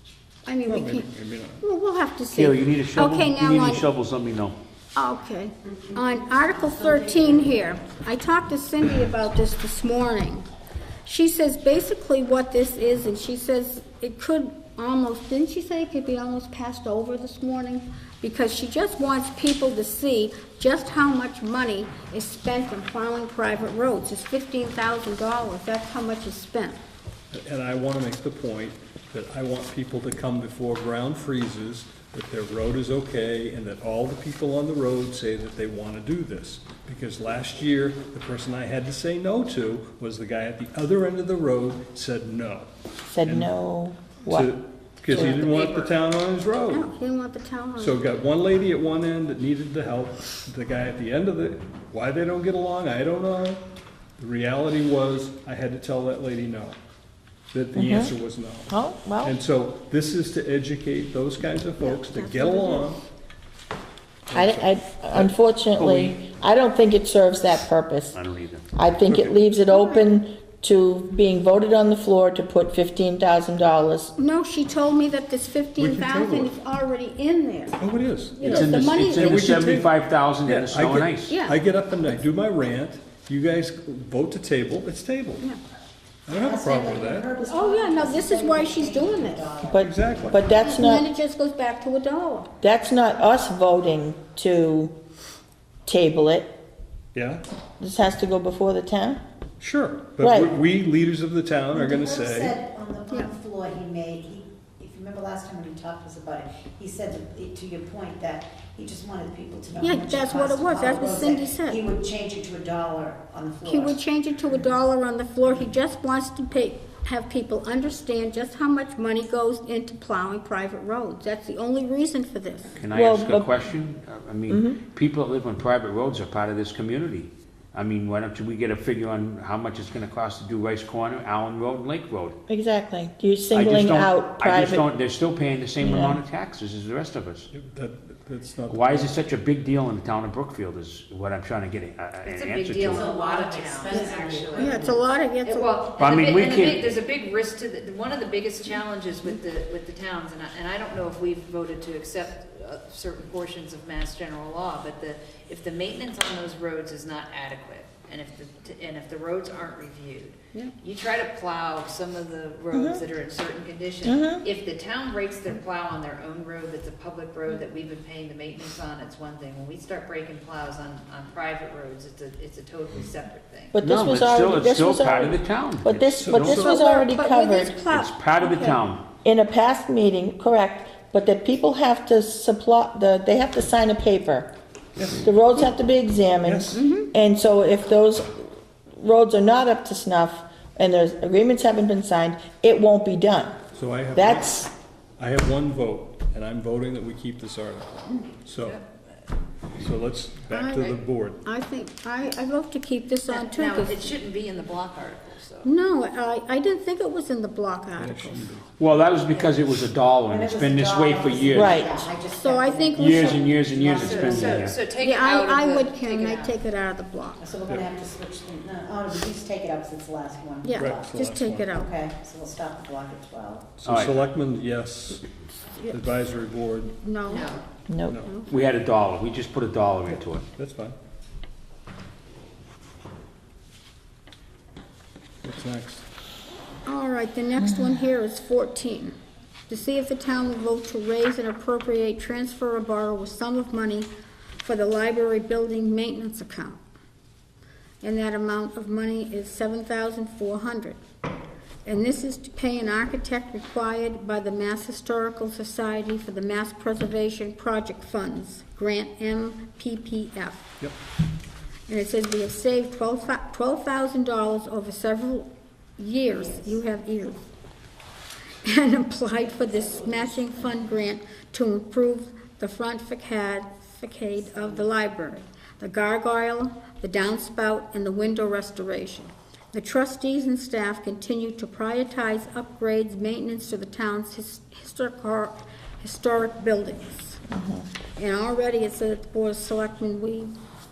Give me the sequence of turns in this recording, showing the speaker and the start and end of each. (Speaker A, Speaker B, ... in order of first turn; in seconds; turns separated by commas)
Speaker A: 0.5-1.1, Speaker B: 0.7-1.6, Speaker A: 1.6-3.9, Speaker C: 2.3-4.5, Speaker A: 4.9-10.4, Speaker D: 6.0-7.8, Speaker A: 11.0-26.8, Speaker B: 27.3-42.7, Speaker E: 43.0-44.6, Speaker B: 43.2-43.5, Speaker B: 44.3-46.9, Speaker F: 45.1-45.9, Speaker A: 46.7-48.0, Speaker B: 47.8-53.6, Speaker B: 54.2-56.8, Speaker B: 57.5-63.0, Speaker E: 57.8-58.1, Speaker E: 58.7-59.4, Speaker A: 61.8-63.0, Speaker E: 64.3-68.2, Speaker B: 64.3-65.2, Speaker C: 65.8-66.2, Speaker C: 68.1-68.7, Speaker E: 68.7-74.1, Speaker B: 69.1-69.4, Speaker A: 69.7-70.0, Speaker A: 74.2-77.8, Speaker B: 75.8-76.5, Speaker B: 77.8-85.5, Speaker A: 78.3-79.6, Speaker C: 78.4-81.4, Speaker A: 81.3-81.6, Speaker B: 86.3-87.3, Speaker D: 86.3-89.8, Speaker A: 87.4-89.5, Speaker E: 89.7-91.1, Speaker B: 89.8-90.4, Speaker A: 90.5-92.5, Speaker E: 92.6-95.0, Speaker E: 95.8-96.6, Speaker B: 97.1-97.4, Speaker E: 97.8-99.2, Speaker B: 99.6-102.6, Speaker E: 100.2-100.5, Speaker D: 101.7-114.0, Speaker A: 109.8-111.8, Speaker A: 113.6-122.8, Speaker C: 122.8-132.4, Speaker E: 122.9-123.5, Speaker E: 124.5-124.8, Speaker E: 132.5-134.8, Speaker C: 133.5-137.5, Speaker E: 135.8-136.2, Speaker B: 137.5-139.2, Speaker C: 138.7-143.1, Speaker F: 142.2-173.8, Speaker D: 142.8-145.0, Speaker A: 143.9-145.7, Speaker C: 146.0-146.8, Speaker E: 162.7-163.0, Speaker E: 164.0-164.4, Speaker E: 173.7-177.8, Speaker C: 173.8-176.7, Speaker B: 176.2-176.8, Speaker A: 176.5-178.8, Speaker C: 177.9-179.0, Speaker E: 179.2-184.5, Speaker B: 185.0-185.3, Speaker E: 185.2-193.6, Speaker B: 186.4-186.8, Speaker A: 186.7-187.1, Speaker B: 193.7-194.6, Speaker E: 194.1-194.7, Speaker B: 195.2-198.8, Speaker F: 198.5-199.2, Speaker B: 199.8-201.4, Speaker A: 200.5-200.9, Speaker A: 201.4-204.2, Speaker F: 203.3-205.7, Speaker A: 205.6-208.5, Speaker B: 208.0-208.8, Speaker C: 208.8-212.1, Speaker D: 208.9-214.6, Speaker E: 211.5-211.9, Speaker A: 212.3-213.5, Speaker C: 212.9-214.8, Speaker F: 213.8-216.6, Speaker A: 215.0-217.4, Speaker D: 217.4-221.2, Speaker A: 220.6-221.9, Speaker B: 220.8-221.7, Speaker D: 221.7-223.7, Speaker B: 223.8-225.2, Speaker C: 223.8-224.2, Speaker B: 225.8-226.9, Speaker A: 227.0-227.5, Speaker F: 227.2-227.6, Speaker E: 227.9-228.2, Speaker A: 228.2-228.5, Speaker C: 228.4-230.4, Speaker B: 230.1-230.9, Speaker B: 235.4-236.0, Speaker A: 236.8-239.1, Speaker E: 237.6-238.0, Speaker A: 239.7-244.1, Speaker A: 244.6-246.8, Speaker A: 248.0-251.0, Speaker A: 251.8-260.7, Speaker A: 261.9-267.4, Speaker D: 266.3-266.8, Speaker A: 268.6-287.4, Speaker D: 269.4-270.6, Speaker D: 274.4-274.9, Speaker E: 287.5-287.9, Speaker A: 288.1-290.5